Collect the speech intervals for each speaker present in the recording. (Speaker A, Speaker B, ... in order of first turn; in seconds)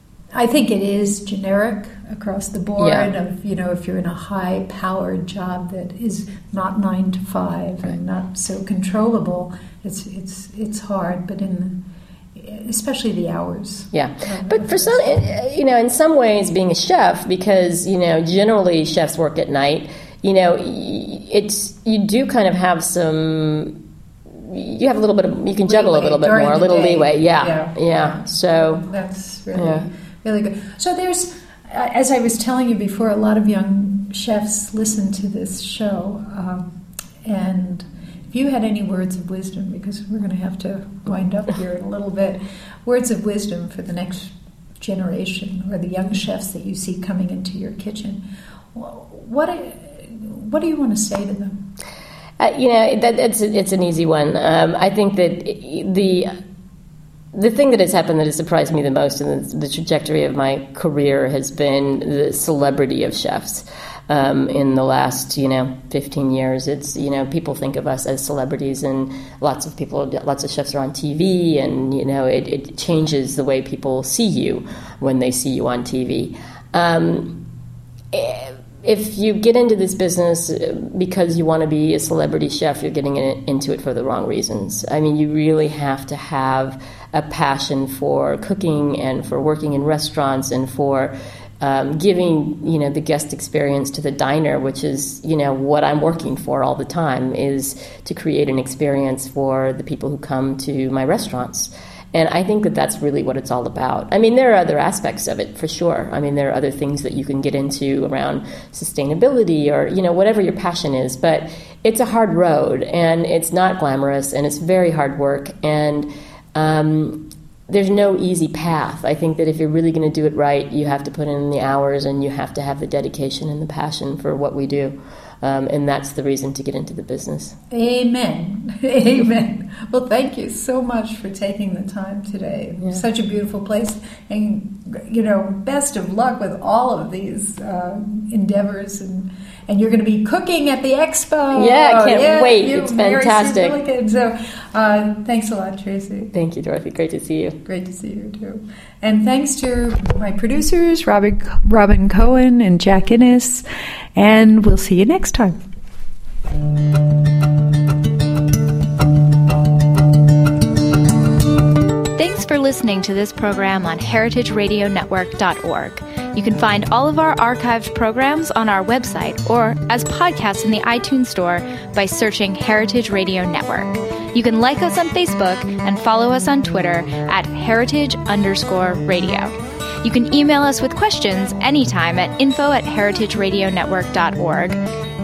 Speaker A: 0.3-15.2, 25.7-48.2, 48.7-51.7, 127.7-146.3, 147.7-155.6
Speaker B: 2.8-3.1, 13.9-28.9, 29.6-29.9, 52.4-56.4, 57.3-77.5, 78.1-127.6, 141.6-143.8, 146.3-147.6
Speaker C: 162.2-184.8